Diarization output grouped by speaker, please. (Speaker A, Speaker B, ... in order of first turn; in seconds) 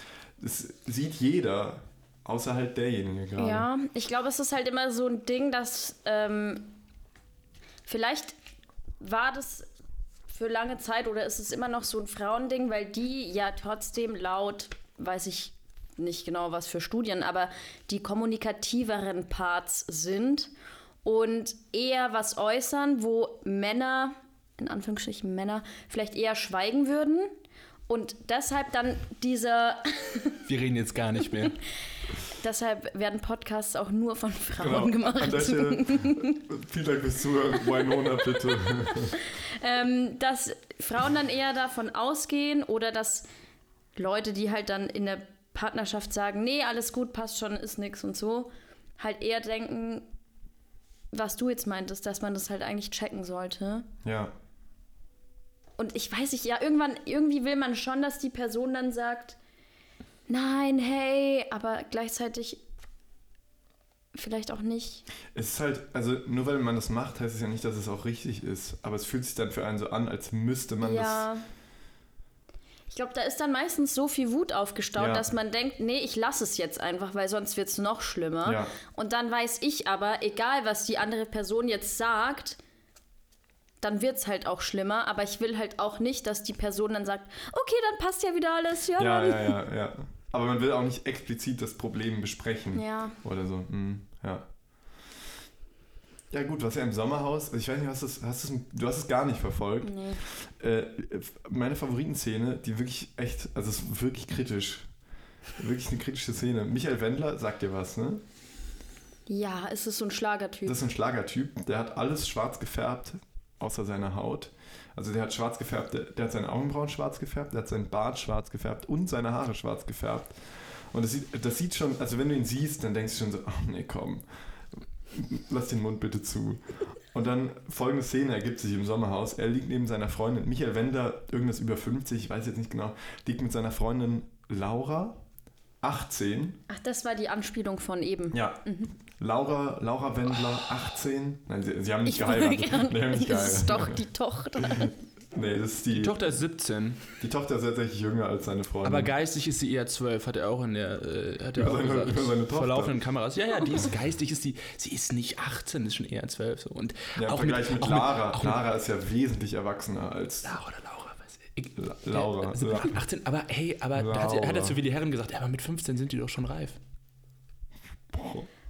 Speaker A: 0.4-3.7, 34.6-39.2, 54.0-54.3, 65.3-71.3, 75.0-75.3, 78.4-78.7, 89.0-94.5, 96.3-104.9, 105.6-108.2, 110.7-124.3, 124.8-135.2, 135.8-136.6, 138.3-144.0, 144.6-146.2, 147.2-149.1, 151.6-153.0, 157.2-160.5, 161.8-163.0, 163.9-164.8, 168.1-168.5
Speaker B: 3.4-6.8, 7.9-8.4, 9.0-9.7, 10.3-20.5, 21.0-27.3, 27.9-30.4, 32.3-36.4, 38.9-43.3, 44.0-50.1, 51.1-53.9, 55.8-59.4, 60.3-62.6, 64.1-65.1, 70.8-71.5, 72.9-82.6, 83.8-89.6, 92.7-93.2, 99.8-100.2, 109.3-110.8, 136.7-138.9, 142.1-144.9
Speaker C: 30.4-31.6, 145.9-147.0, 148.8-158.6, 160.4-166.8